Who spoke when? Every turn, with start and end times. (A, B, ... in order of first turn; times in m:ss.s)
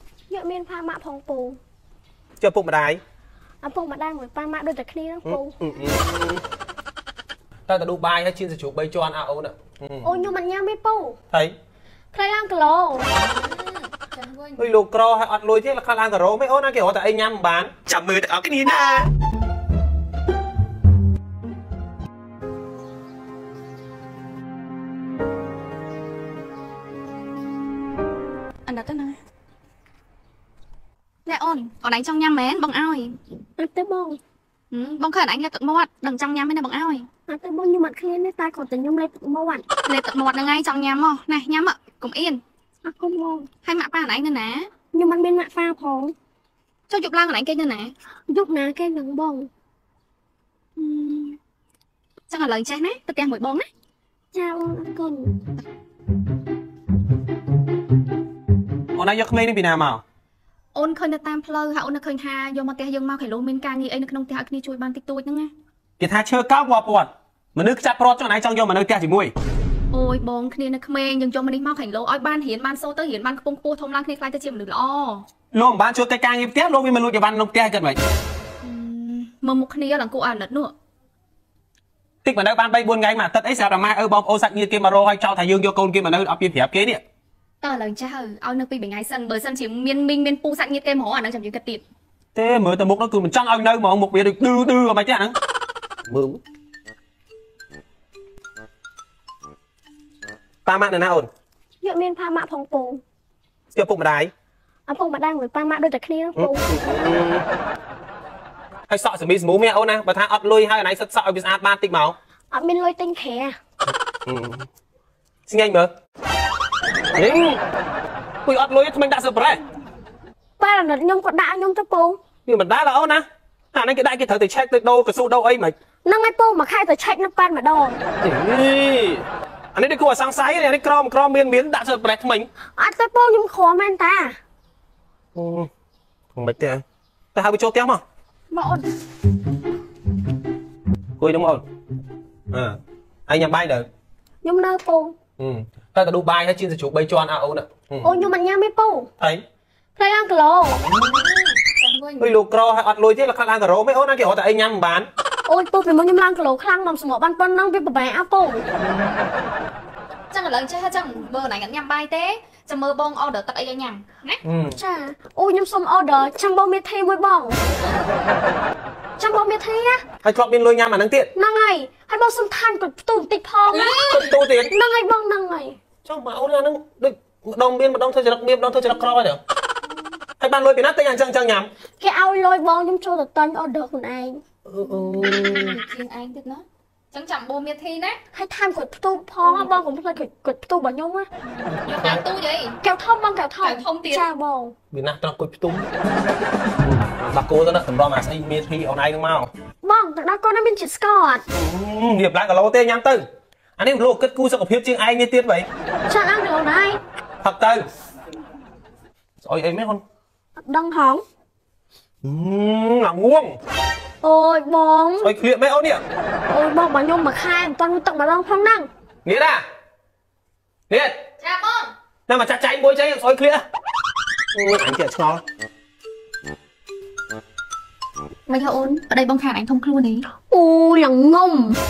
0:00.3-0:01.6 A
0:02.4-0:03.0 B
0:03.6-0:05.6 A
0:05.2-0:06.4 B
0:07.7-0:10.1 B
0:10.0-0:11.2 A
0:12.1-0:13.1 A
0:13.2-0:14.6 C
0:14.6-0:19.1 B
0:28.6-0:29.2 C
0:31.2-0:33.2 C
0:33.6-0:34.2 A
0:34.7-0:37.1 C
0:37.3-0:39.7 A
0:39.8-0:42.4 C
0:42.8-0:43.5 A
0:43.6-0:44.7 C
0:44.9-0:46.1 A
0:46.9-0:47.9 C
0:48.3-0:49.5 A
0:50.8-0:51.4 C
0:52.3-0:53.7 C
0:54.3-0:55.3 A
0:58.9-1:00.0 B
1:00.7-1:05.5 C
1:06.0-1:09.3 B
1:09.9-1:15.2 C
1:15.5-1:18.0 B
1:18.6-1:20.7 C
1:22.2-1:27.0 B
1:27.6-1:31.8 C
1:32.3-1:35.3 B
1:36.1-1:36.4 B
1:40.6-1:41.3 B
1:41.8-1:43.0 A
1:43.7-1:44.3 B
1:44.9-1:46.7 A
1:46.4-1:47.4 B
1:48.9-1:52.2 B
1:52.5-1:53.6 A
1:54.2-1:54.6 B
1:55.5-1:55.9 B
1:57.1-1:57.6 B
1:58.4-1:59.6 B
2:00.6-2:02.2 A
2:02.4-2:05.7 B
2:06.0-2:08.0 A
2:08.2-2:12.5 B
2:12.8-2:14.4 A
2:15.3-2:15.7 B
2:16.3-2:16.8 B
2:17.3-2:18.0 B
2:21.2-2:21.6 B
2:22.5-2:23.9 B
2:24.4-2:25.2 A
2:25.4-2:28.1 B
2:28.0-2:29.1 A
2:30.0-2:30.8 A
2:31.0-2:32.3 C
2:32.2-2:35.1 B
2:35.4-2:38.6 A
2:40.3-2:44.4 C
2:44.4-2:44.7 B
2:44.7-2:47.6 A
2:49.2-2:50.0 A
2:50.2-2:51.3 B
2:51.3-2:55.8 A
2:53.9-2:54.7 B
2:56.0-2:59.4 B
3:00.4-3:01.7 B
3:02.0-3:04.4 A
3:04.7-3:05.8 B
3:05.1-3:08.2 C
3:08.3-3:11.3 A
3:09.4-3:09.7 C
3:11.6-3:12.8 C
3:11.8-3:12.2 B
3:12.8-3:14.7 A
3:13.6-3:14.2 C
3:14.9-3:15.9 B
3:16.8-3:19.5 B
3:19.8-3:21.4 A
3:21.5-3:23.2 B
3:23.8-3:25.7 B
3:26.1-3:27.0 A
3:27.4-3:27.8 B
3:29.4-3:30.0 B
3:30.6-3:31.2 A
3:32.2-3:33.6 B
3:34.2-3:35.3 A
3:35.2-3:36.0 B
3:36.5-3:38.9 A
3:39.2-3:39.6 B
3:41.4-3:41.9 C
3:42.3-3:43.6 B
3:44.5-3:45.4 B
3:48.5-3:50.2 C
3:50.5-3:51.8 A